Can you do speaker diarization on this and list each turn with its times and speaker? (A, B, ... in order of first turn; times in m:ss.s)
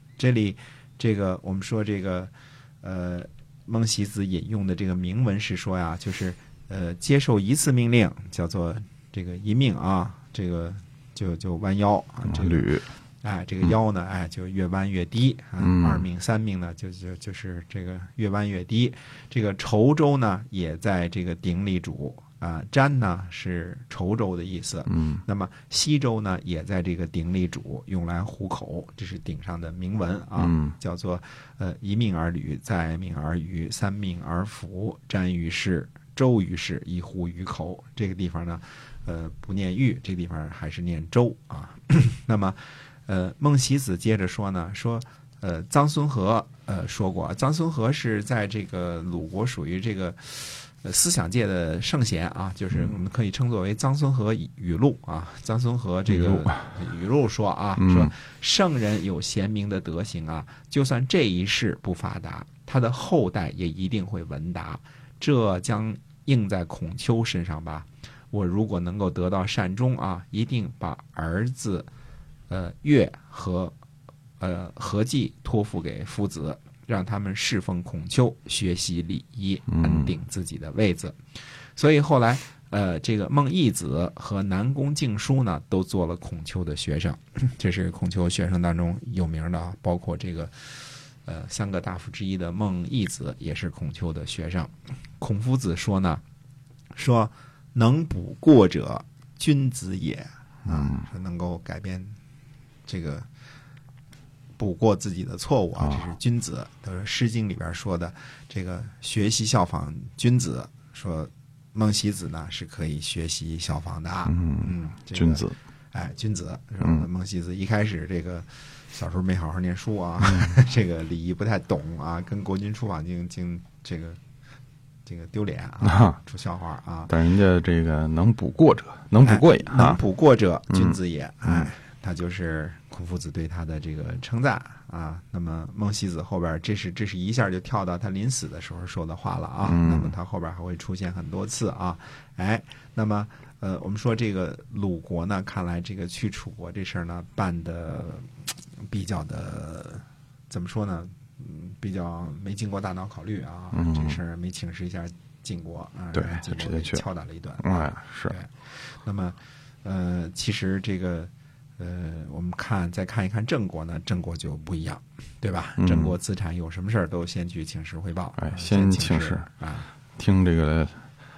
0:00.2-1:11.9 A
0:12.3-0:12.9 B
0:15.6-0:16.0 B
0:30.4-0:30.7 B
0:56.1-0:56.6 B
0:57.8-0:58.1 B
1:12.5-1:13.7 A
1:14.4-1:21.2 A
1:19.7-1:20.1 B
1:21.8-1:36.2 A
1:36.9-1:42.1 A
1:40.7-1:41.0 B
1:42.9-1:43.3 A
1:44.6-2:04.2 A
1:54.2-1:55.6 B
2:05.0-2:07.1 A
2:05.8-2:06.2 B
2:07.1-2:10.0 B
2:09.2-2:49.9 A
2:10.7-2:10.9 B
2:19.6-2:20.1 B
2:33.7-2:34.2 B
2:36.1-2:37.0 B
2:37.6-2:38.3 B
2:45.8-2:46.1 B
2:48.4-2:49.5 B
2:50.2-2:50.9 B